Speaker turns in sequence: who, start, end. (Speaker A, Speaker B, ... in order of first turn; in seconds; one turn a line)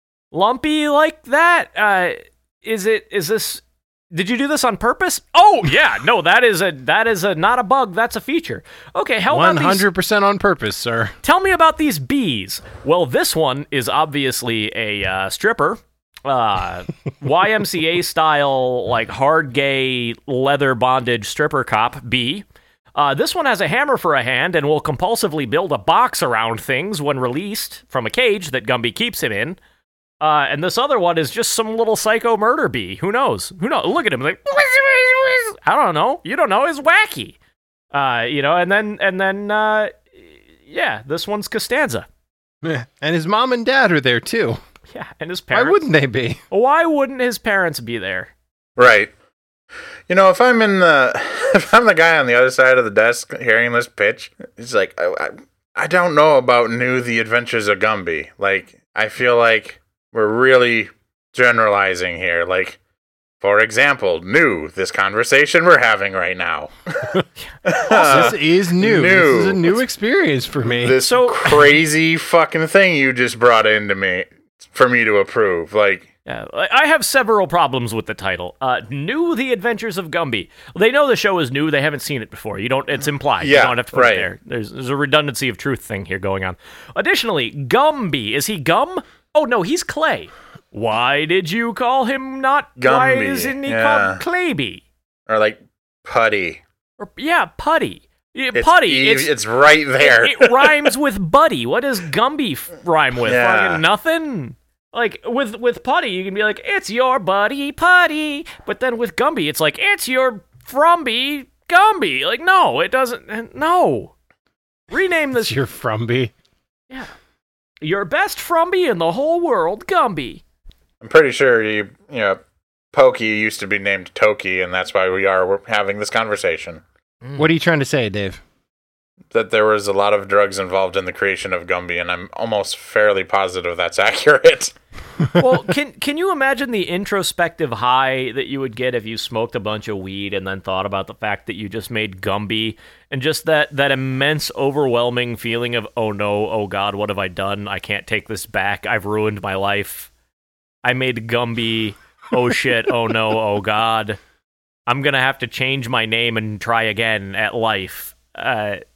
Speaker A: 0.3-9.9
Speaker B: 9.3-11.2
Speaker A: 11.2-22.4
Speaker A: 23.0-29.6
Speaker A: 30.2-37.4
Speaker A: 37.9-42.1
Speaker B: 42.6-44.6
Speaker A: 44.9-45.8
Speaker B: 45.5-46.4
Speaker A: 46.5-48.3
Speaker C: 48.8-49.1
Speaker C: 50.1-62.8
Speaker C: 63.4-67.1
Speaker C: 67.7-69.8
Speaker B: 67.9-71.0
Speaker A: 67.9-68.3
Speaker C: 70.7-76.1
Speaker A: 71.0-71.7
Speaker A: 76.3-94.8
Speaker C: 83.4-84.3
Speaker C: 92.8-94.2
Speaker C: 95.3-96.6
Speaker A: 97.0-99.3
Speaker C: 98.5-100.9
Speaker A: 100.0-114.1
Speaker C: 103.3-103.8
Speaker A: 114.9-115.5
Speaker B: 115.4-116.3
Speaker A: 117.8-120.4
Speaker C: 121.0-122.4
Speaker C: 122.9-126.8
Speaker B: 127.4-128.4
Speaker C: 129.3-134.7
Speaker A: 135.4-150.1
Speaker A: 150.8-154.2
Speaker A: 154.9-158.8